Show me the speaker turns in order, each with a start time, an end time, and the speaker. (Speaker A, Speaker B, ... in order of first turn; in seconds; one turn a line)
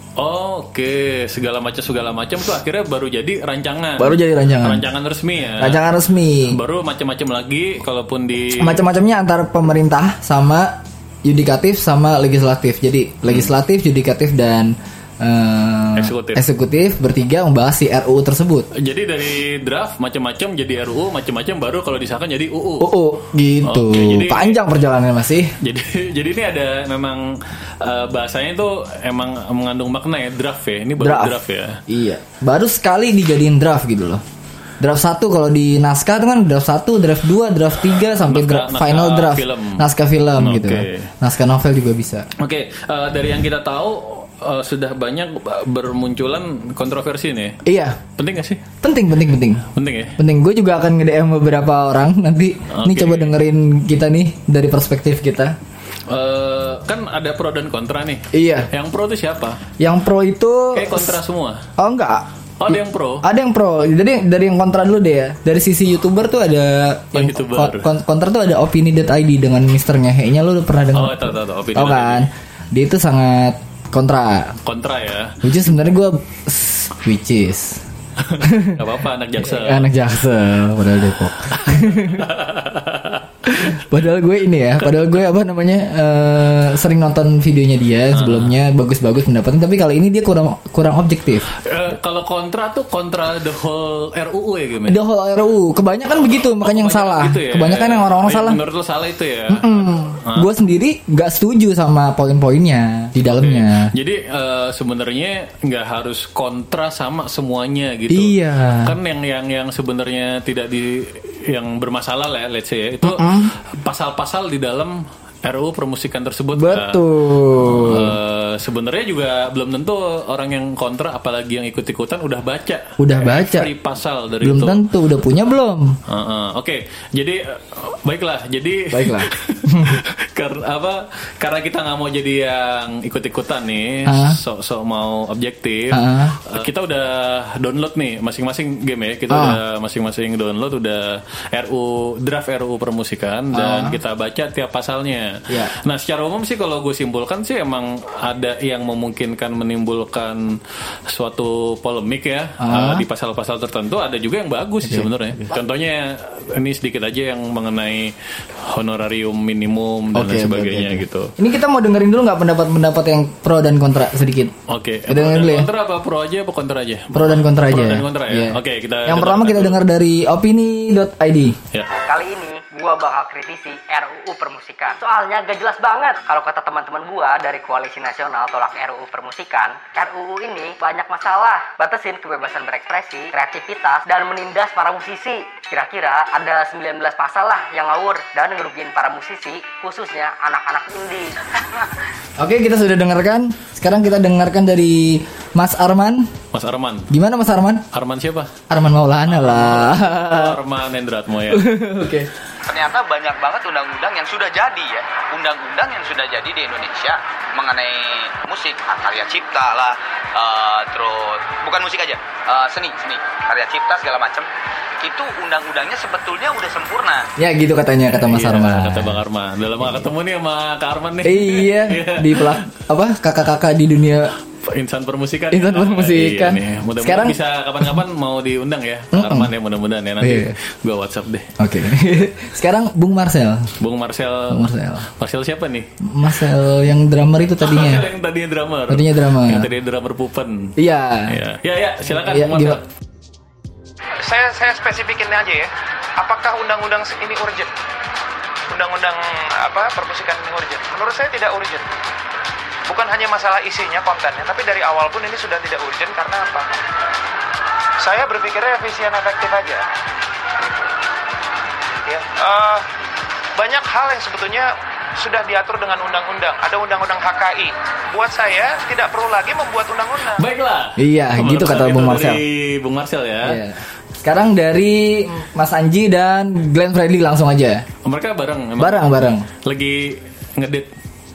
Speaker A: 0.2-5.8
Speaker B: 4.0-4.8
Speaker B: 5.6-6.5
Speaker A: 6.5-8.8
Speaker B: 8.6-18.7
Speaker A: 16.0-16.4
Speaker A: 18.7-22.9
Speaker B: 22.8-25.5
Speaker A: 23.6-24.6
Speaker A: 25.6-31.8
Speaker B: 31.0-31.4
Speaker B: 31.9-34.2
Speaker B: 34.8-42.3
Speaker A: 38.1-39.9
Speaker A: 40.4-41.1
Speaker A: 42.4-47.6
Speaker B: 47.6-48.0
Speaker A: 48.2-48.6
Speaker B: 48.8-49.6
Speaker A: 49.7-50.1
Speaker B: 50.2-55.5
Speaker A: 52.7-53.4
Speaker A: 56.1-59.6
Speaker B: 58.3-58.7
Speaker B: 59.8-61.2
Speaker A: 60.7-61.6
Speaker B: 61.8-74.6
Speaker A: 62.6-63.2
Speaker A: 67.1-67.9
Speaker A: 70.9-72.3
Speaker A: 74.6-75.4
Speaker B: 75.4-77.8
Speaker A: 78.2-79.9
Speaker B: 78.4-78.8
Speaker B: 79.4-82.3
Speaker A: 81.6-83.8
Speaker B: 83.5-91.5
Speaker A: 88.1-88.6
Speaker A: 91.6-95.0
Speaker B: 94.9-98.6
Speaker A: 96.6-100.5
Speaker B: 99.5-103.9
Speaker A: 103.2-124.8
Speaker B: 108.1-108.9
Speaker B: 113.0-113.5
Speaker B: 116.5-118.1
Speaker B: 123.0-123.7
Speaker B: 124.4-126.0
Speaker A: 126.1-161.3
Speaker B: 128.9-130.0
Speaker B: 134.1-134.4
Speaker B: 135.9-136.4
Speaker B: 139.3-139.6
Speaker B: 143.5-144.0
Speaker B: 152.6-153.0
Speaker B: 154.8-155.5
Speaker B: 160.1-164.5
Speaker A: 164.7-169.8
Speaker B: 165.1-165.7
Speaker B: 167.1-171.6
Speaker C: 172.1-191.8
Speaker B: 192.4-196.3
Speaker A: 196.5-197.1
Speaker B: 197.1-197.8
Speaker A: 197.9-198.5
Speaker B: 198.7-200.6
Speaker A: 199.3-201.7
Speaker B: 201.5-202.3
Speaker D: 202.7-214.5
Speaker D: 215.0-217.3
Speaker B: 217.4-219.2
Speaker A: 218.1-222.6
Speaker B: 221.2-224.3
Speaker A: 224.6-231.5
Speaker B: 225.5-227.4
Speaker B: 229.1-229.5
Speaker B: 230.2-230.5
Speaker B: 231.6-233.7
Speaker A: 233.8-235.9
Speaker B: 234.5-235.1
Speaker B: 236.0-238.1
Speaker A: 237.6-240.8
Speaker B: 238.9-239.7
Speaker B: 240.8-241.4
Speaker A: 241.3-242.8
Speaker B: 242.1-242.8
Speaker E: 244.2-247.7
Speaker E: 248.7-251.9
Speaker E: 252.9-256.8
Speaker E: 258.0-259.9
Speaker E: 262.1-262.9
Speaker E: 263.6-270.4
Speaker A: 270.4-273.6
Speaker B: 271.0-272.4
Speaker B: 273.4-277.8
Speaker A: 278.0-280.9
Speaker B: 278.8-279.5